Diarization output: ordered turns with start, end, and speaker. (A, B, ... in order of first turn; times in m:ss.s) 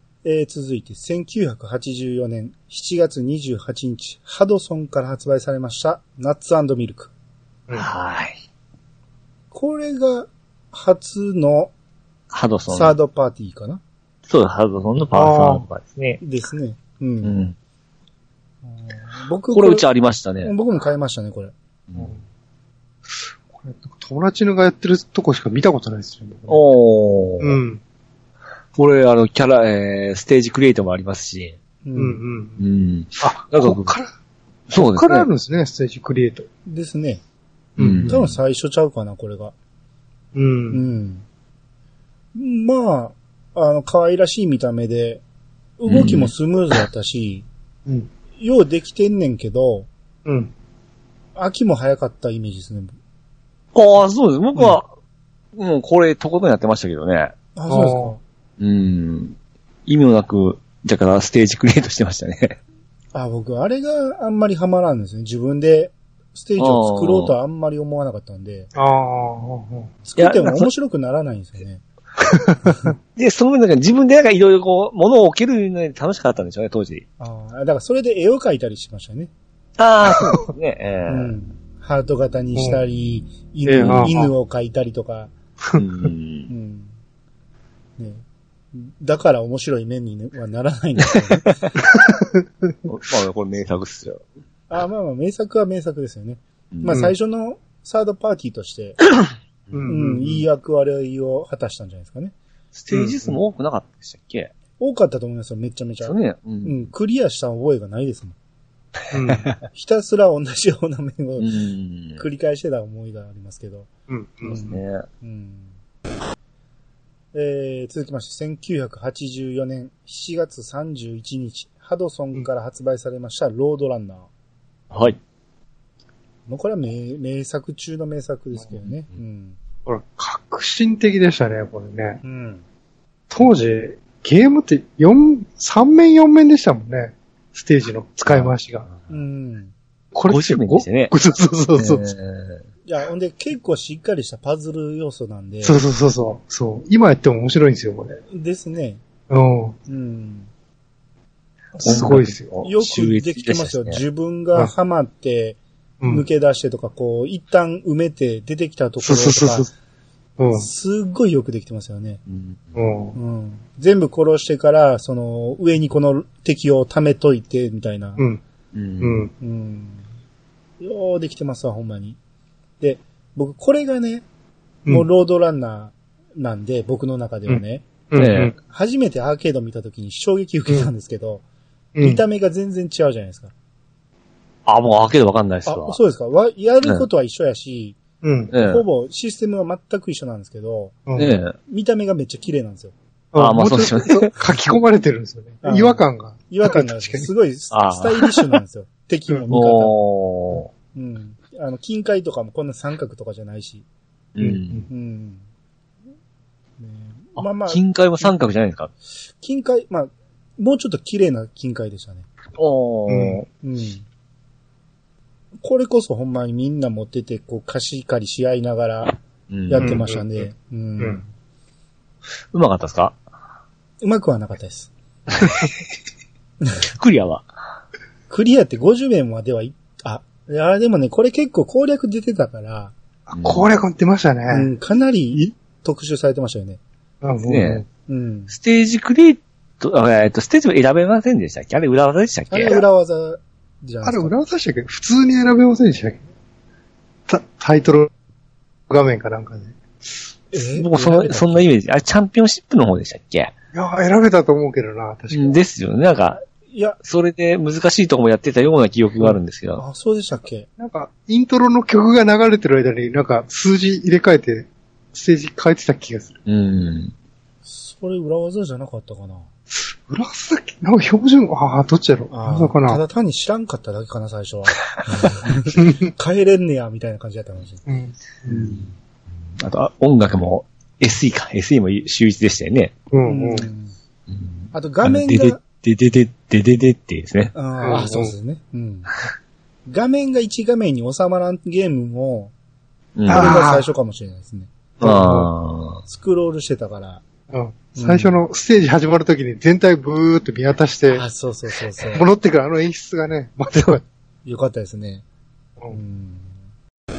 0:00.2-0:07.1 A
0:07.7-0:08.4 B
0:09.5-0:11.7 A
0:12.3-0:12.9 B
0:12.7-0:13.8 A
0:14.3-0:16.2 B
0:15.1-0:15.6 C
0:16.2-0:17.3 A
0:17.2-0:17.6 B
0:18.6-0:19.9 A
0:19.5-0:20.5 B
0:20.4-0:21.5 A
0:23.5-0:26.6 C
0:26.5-0:27.6 B
0:27.4-0:27.8 C
0:28.7-0:31.6 B
0:31.8-0:32.2 A
0:31.9-0:32.6 C
0:32.6-0:34.0 B
0:33.2-0:34.1 C
0:34.7-0:35.3 B
0:34.7-0:36.5 C
0:36.6-0:37.2 A
0:37.8-0:38.2 C
0:37.8-0:38.3 B
0:38.0-0:39.5 A
0:40.3-0:40.8 C
0:40.7-0:41.2 A
0:42.3-0:45.2 A
0:45.8-0:47.4 A
0:45.9-0:46.3 B
0:48.4-0:49.9 A
0:50.2-0:50.5 C
0:51.4-0:52.9 A
0:53.7-0:54.9 B
0:55.5-0:57.3 B
0:57.5-0:58.2 A
0:57.7-0:58.2 C
0:58.6-1:02.6 B
1:03.1-1:08.7 A
1:06.6-1:07.3 B
1:08.7-1:09.9 C
1:10.0-1:11.8 A
1:10.2-1:10.7 B
1:12.2-1:12.5 C
1:12.6-1:12.9 A
1:13.2-1:17.0 B
1:17.2-1:19.3 A
1:19.8-1:21.3 B
1:21.1-1:25.3 A
1:22.5-1:22.8 C
1:23.7-1:24.3 C
1:23.8-1:24.1 B
1:25.7-1:26.5 B
1:26.5-1:26.9 A
1:28.0-1:31.5 A
1:31.9-1:32.4 C
1:32.9-1:34.2 B
1:34.7-1:39.0 A
1:36.7-1:37.0 B
1:39.7-1:40.4 C
1:39.9-1:42.3 A
1:42.7-1:44.5 B
1:42.9-1:43.3 C
1:44.8-1:48.3 A
1:46.0-1:46.9 B
1:49.1-1:49.5 C
1:49.7-1:51.6 A
1:51.4-1:52.2 B
1:52.2-1:53.9 A
1:54.1-1:54.7 C
1:54.4-1:55.7 A
1:54.6-1:55.0 B
1:57.3-2:04.3 A
2:04.9-2:05.2 B
2:06.5-2:09.6 A
2:09.8-2:12.2 C
2:12.2-2:12.6 A
2:13.3-2:18.9 C
2:18.3-2:18.9 B
2:19.1-2:19.7 A
2:20.1-2:22.0 C
2:20.3-2:21.1 B
2:21.8-2:22.6 B
2:22.8-2:25.8 A
2:25.6-2:28.2 C
2:28.3-2:29.0 A
2:29.3-2:29.8 C
2:29.9-2:30.5 A
2:31.8-2:32.6 C
2:31.8-2:34.0 B
2:32.6-2:39.7 A
2:39.0-2:39.7 C
2:40.4-2:40.7 C
2:40.5-2:42.2 A
2:42.3-2:42.8 B
2:42.8-2:43.2 C
2:43.1-2:48.2 A
2:48.7-2:49.3 B
2:49.0-2:49.3 C
2:49.4-2:50.0 A
2:50.8-2:52.2 A
2:52.8-2:54.2 A
2:54.9-2:57.8 A
2:57.5-2:58.6 C
2:58.2-2:58.5 B
2:58.6-3:01.4 A
3:01.9-3:02.2 C
3:02.0-3:03.5 A
3:04.6-3:06.0 B
3:05.6-3:08.0 A
3:08.2-3:08.5 C
3:08.5-3:08.8 B
3:08.6-3:11.0 A
3:11.1-3:11.3 C
3:11.2-3:11.6 B
3:11.7-3:12.9 A
3:13.3-3:17.3 C
3:13.4-3:14.3 B
3:15.6-3:20.0 A
3:17.7-3:18.4 B
3:19.5-3:20.7 B
3:20.9-3:23.8 A
3:24.3-3:24.8 B
3:24.4-3:24.9 C
3:24.9-3:25.4 A
3:26.8-3:28.3 A
3:27.4-3:28.9 B
3:29.4-3:32.3 A
3:32.6-3:33.4 B
3:33.1-3:33.4 C
3:33.6-3:34.0 A
3:35.6-3:39.2 A
3:39.5-3:40.0 B
3:39.7-3:41.2 A
3:39.8-3:40.4 C
3:42.5-3:43.2 B
3:44.0-3:44.9 A
3:45.4-3:45.7 B
3:46.9-3:47.4 B
3:48.3-3:52.9 A
3:53.3-3:54.7 C
3:53.4-3:53.7 B
3:54.5-3:56.8 A
3:57.2-3:57.8 C
3:57.5-3:57.8 B
3:58.1-3:58.5 A
3:58.5-4:02.8 B
4:02.5-4:04.3 A
4:04.0-4:06.2 C
4:07.3-4:08.1 C
4:08.9-4:09.8 C
4:10.5-4:11.7 A
4:10.8-4:13.5 B
4:13.7-4:15.6 C
4:15.3-4:16.4 B
4:16.6-4:17.0 A
4:17.0-4:19.8 B
4:19.7-4:20.7 A
4:20.8-4:26.4 C
4:26.4-4:27.1 B
4:27.6-4:29.5 A
4:30.1-4:33.0 C
4:32.3-4:37.8 A
4:35.1-4:35.3 B
4:35.8-4:36.1 C
4:37.9-4:38.8 C
4:38.5-4:38.9 A
4:39.6-4:42.9 B
4:43.1-4:43.7 C
4:43.2-4:43.9 A
4:44.3-4:47.5 B
4:44.7-4:45.6 A
4:47.5-4:49.1 A
4:47.8-4:48.3 C
4:49.9-4:52.5 A
4:53.2-4:53.6 B
4:53.3-4:53.9 C
4:53.3-4:54.7 A
4:55.0-4:55.5 C
4:55.0-4:56.0 B
4:56.0-4:57.2 A
4:57.5-5:01.2 C
4:58.0-4:58.4 A
5:01.1-5:02.2 A
5:02.1-5:04.0 C
5:04.4-5:05.2 A
5:05.9-5:06.5 A